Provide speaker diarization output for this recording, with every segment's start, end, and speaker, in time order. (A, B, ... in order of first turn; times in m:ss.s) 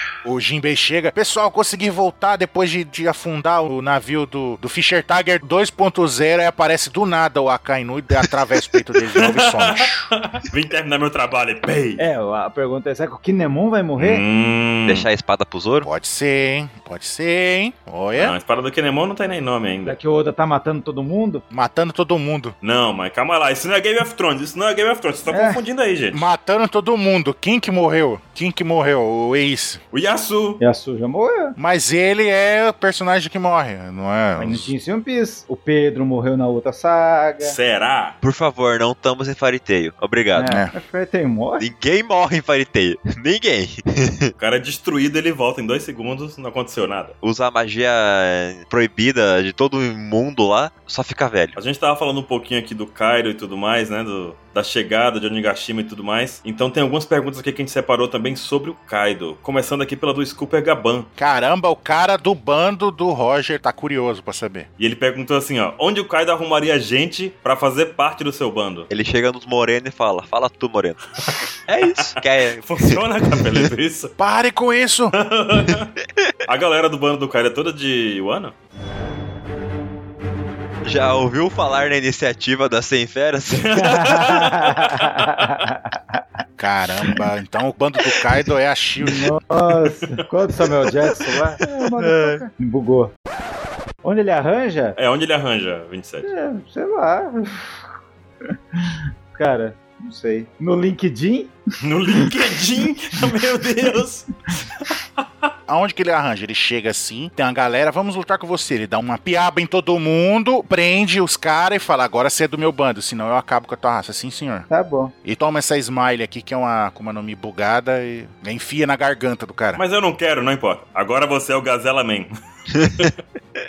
0:00.2-0:10.1 A
0:09.1-0:12.0 B
0:12.0-0:14.2 C
0:14.0-0:15.1 B
0:14.8-0:15.9 D
0:15.8-0:18.4 A
0:18.1-0:20.0 B
0:19.8-0:21.4 C
0:21.5-0:22.5 A
0:22.6-0:26.2 B
0:25.3-0:25.6 C
0:26.1-0:29.8 A
0:29.9-0:30.6 B
0:30.6-0:31.6 C
0:31.6-0:34.7 A
0:34.4-0:37.6 C
0:37.4-0:38.2 B
0:38.2-0:40.5 D
0:40.3-0:41.7 C
0:40.4-0:40.7 A
0:41.6-0:44.3 D
0:44.4-0:47.2 B
0:47.2-0:51.6 D
0:51.6-1:01.1 B
1:01.2-1:04.7 A
1:04.8-1:08.9 B
1:08.9-1:13.7 D
1:11.9-1:14.1 B
1:14.2-1:15.1 A
1:15.1-1:15.9 B
1:15.5-1:16.3 D
1:16.4-1:18.5 B
1:20.8-1:23.8 D
1:23.5-1:25.1 B
1:23.7-1:26.2 C
1:26.6-1:29.3 A
1:29.0-1:33.1 C
1:32.0-1:32.4 D
1:34.0-1:35.0 C
1:35.0-1:36.3 B
1:36.2-1:37.9 C
1:38.5-1:41.5 C
1:41.8-1:45.5 B
1:45.7-1:54.7 A
1:54.7-1:55.1 C
1:55.2-1:59.8 A
1:59.8-2:03.1 B
2:02.8-2:03.1 D